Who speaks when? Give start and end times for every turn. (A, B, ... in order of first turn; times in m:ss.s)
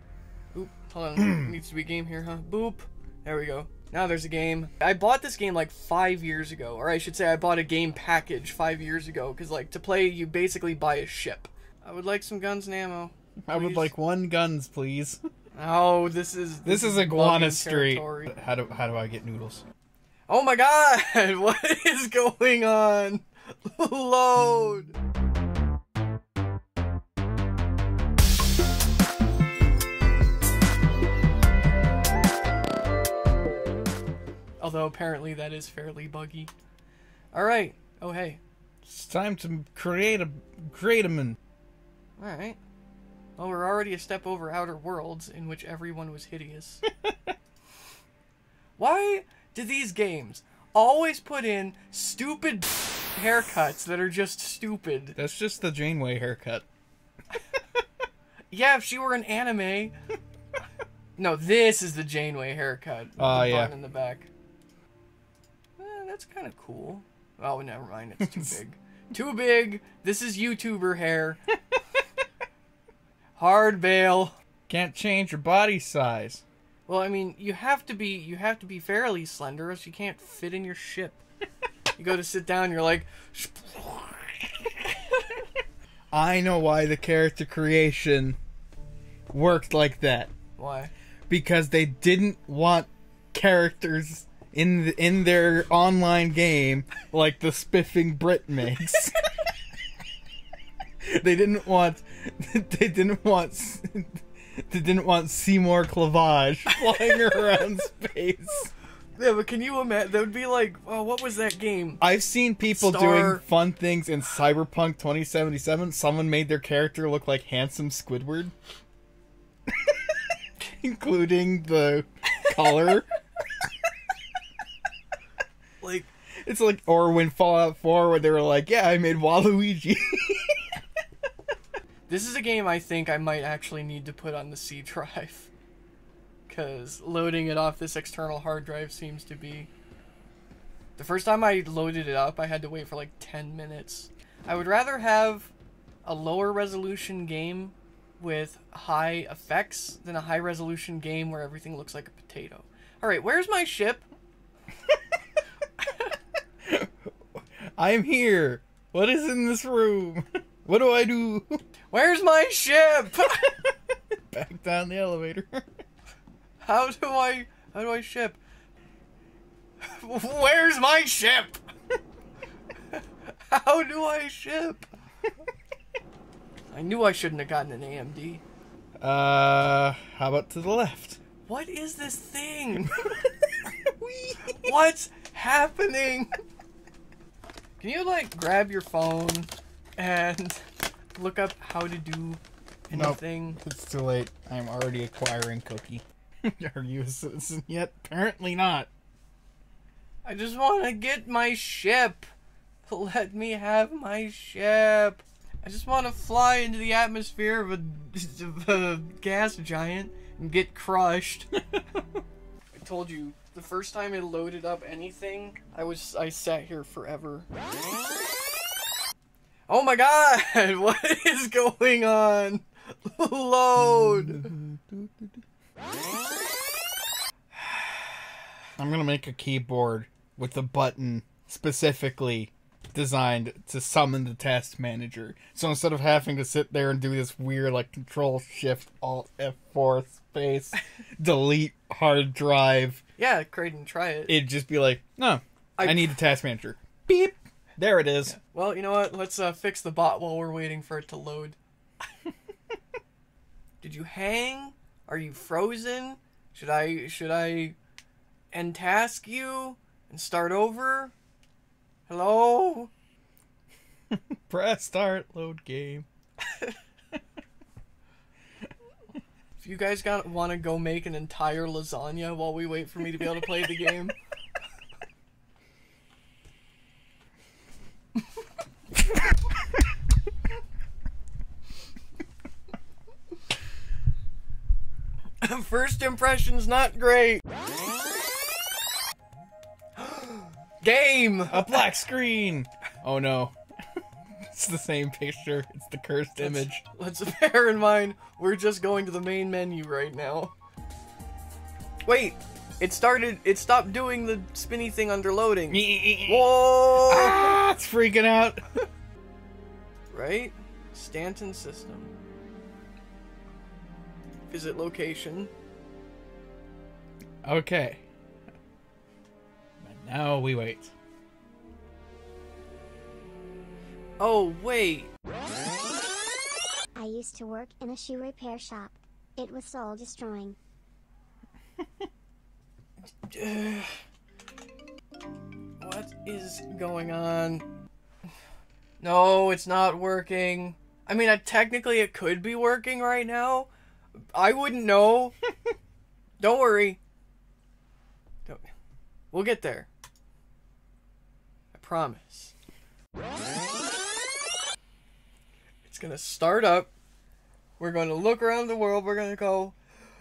0:00.5-0:13.9 A
0:01.2-0:01.6 B
0:13.5-0:15.2 B
0:15.5-0:18.3 A
0:16.6-0:19.6 B
0:20.3-0:25.0 A
0:34.6-0:36.5 A
0:37.3-0:38.4 A
0:38.8-0:41.4 B
0:42.2-0:42.6 A
0:43.4-0:46.8 A
0:48.8-0:55.2 A
0:55.2-0:56.7 B
0:58.5-1:00.0 A
1:01.2-1:04.3 A
1:03.2-1:03.7 B
1:05.8-1:11.4 A
1:13.4-1:14.4 A
1:14.7-1:16.4 B
1:16.9-1:21.2 A
1:22.0-1:24.6 A
1:26.1-1:28.4 B
1:29.3-1:30.3 B
1:30.6-1:30.9 A
1:31.3-1:39.2 B
1:41.0-1:48.7 B
1:49.2-1:52.0 A
1:52.0-1:58.5 B
1:52.7-1:53.4 A
2:00.6-2:03.1 B
2:05.8-2:06.1 A
2:06.4-2:10.8 B
2:12.1-2:15.5 A
2:16.5-2:19.7 A
2:21.0-2:25.5 A
2:26.0-2:34.1 A
2:36.6-2:41.6 B
2:41.9-2:43.6 A
2:44.3-2:45.7 B
2:46.6-2:48.4 A
2:49.8-2:51.6 A
2:52.9-2:54.9 A
2:56.7-2:58.4 A
2:59.0-3:01.2 B
3:01.5-3:03.1 A
3:03.7-3:04.7 B
3:04.5-3:06.3 A
3:07.8-3:10.6 A
3:11.2-3:13.6 A
3:12.9-3:18.9 B
3:20.2-3:22.3 A
3:22.9-3:31.5 A
3:32.7-3:37.5 A
3:39.7-3:44.6 A
3:43.8-3:45.4 B
3:48.8-4:03.0 B
4:03.2-4:04.4 A
4:04.3-4:08.4 B
4:05.8-4:06.2 A
4:08.3-4:11.6 A
4:13.8-4:17.8 A
4:18.5-4:21.1 A
4:22.1-4:22.9 A
4:24.1-4:26.1 B
4:29.6-4:34.2 A
4:45.4-4:47.4 A
4:50.0-4:51.8 A
4:51.5-4:53.6 B
4:54.5-4:56.8 B
4:56.4-5:00.5 A
5:02.1-5:07.6 A
5:05.7-5:08.7 B
5:10.1-5:12.1 A
5:14.5-5:15.5 A
5:17.4-5:18.0 B
5:19.8-5:20.9 B
5:24.2-5:25.1 A
5:27.0-5:30.6 C
5:33.2-5:34.0 A
5:35.8-5:37.6 A
5:39.0-5:43.7 A
5:44.3-5:45.4 A
5:46.4-5:47.0 A
5:49.3-5:49.9 A
5:51.7-5:52.5 A
5:55.9-5:56.9 A
5:57.8-5:59.8 A